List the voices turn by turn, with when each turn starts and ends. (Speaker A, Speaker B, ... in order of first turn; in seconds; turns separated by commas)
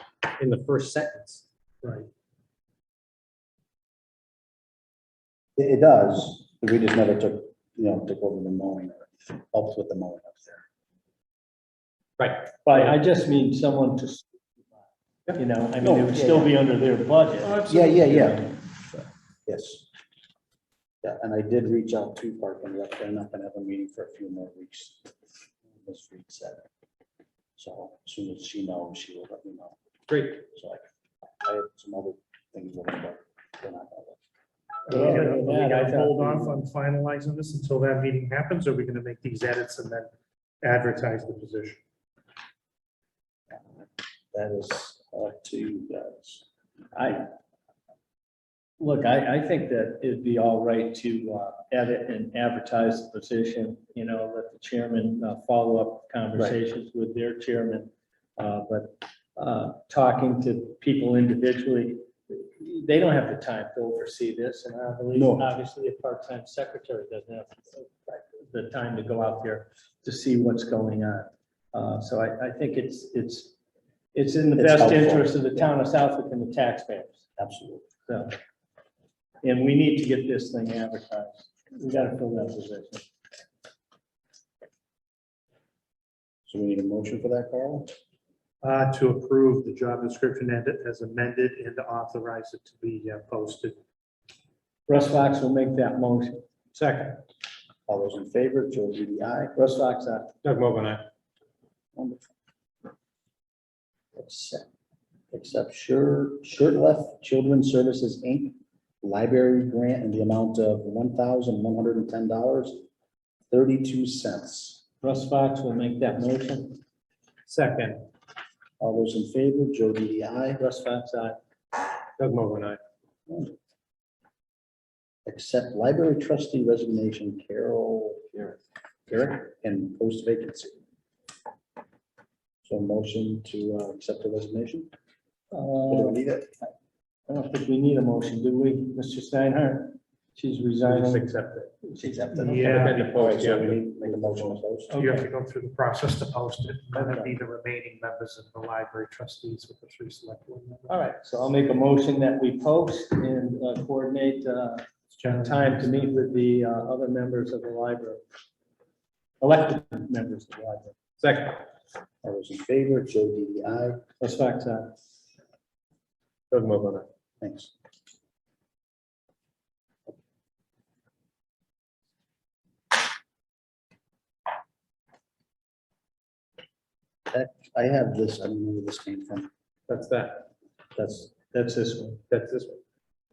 Speaker A: 0.3-1.4, Speaker B: 1.8-2.1, Speaker C: 5.6-10.7, Speaker A: 12.2-12.9, Speaker D: 12.7-14.3, Speaker D: 15.4-18.5, Speaker C: 15.8-16.6, Speaker A: 17.5-17.9, Speaker C: 17.6-19.9, Speaker C: 21.0-25.1, Speaker C: 25.7-26.6, Speaker C: 27.6-29.8, Speaker A: 30.1-30.4, Speaker C: 30.4-30.8, Speaker C: 31.4-34.2, Speaker D: 34.9-36.6, Speaker B: 34.9-41.8, Speaker C: 44.3-46.5, Speaker D: 47.0-47.3, Speaker D: 48.8-73.5, Speaker C: 65.1-65.5, Speaker D: 74.1-77.2, Speaker C: 74.6-75.7, Speaker C: 77.4-77.9, Speaker D: 78.1-78.3, Speaker D: 79.4-83.1, Speaker C: 86.5-87.9, Speaker B: 88.6-93.8, Speaker D: 94.9-96.4, Speaker A: 96.8-97.2, Speaker C: 97.9-99.6, Speaker D: 99.6-100.3, Speaker A: 100.4-101.0, Speaker C: 102.0-102.3, Speaker C: 104.2-104.7, Speaker C: 105.3-112.8, Speaker C: 113.5-114.8, Speaker D: 115.0-116.8, Speaker A: 117.5-118.1, Speaker C: 118.8-120.6, Speaker D: 120.6-121.4, Speaker A: 122.2-122.8, Speaker C: 123.3-123.5, Speaker C: 125.3-128.6, Speaker C: 129.1-130.8, Speaker C: 132.6-134.9, Speaker D: 135.5-136.2, Speaker C: 135.9-136.7, Speaker D: 137.3-143.0, Speaker A: 140.8-141.7, Speaker C: 142.1-144.9, Speaker B: 142.3-143.1, Speaker A: 142.6-144.3, Speaker D: 144.9-145.3, Speaker B: 145.0-151.0, Speaker D: 146.9-147.3, Speaker D: 150.9-158.2, Speaker B: 155.1-156.3, Speaker D: 159.4-161.0, Speaker A: 161.2-161.6, Speaker C: 162.2-164.0, Speaker D: 164.2-164.9, Speaker A: 166.5-167.1, Speaker C: 167.4-167.7, Speaker C: 177.3-179.5, Speaker A: 179.9-180.5, Speaker C: 181.0-181.2, Speaker D: 181.2-182.2, Speaker A: 182.3-182.8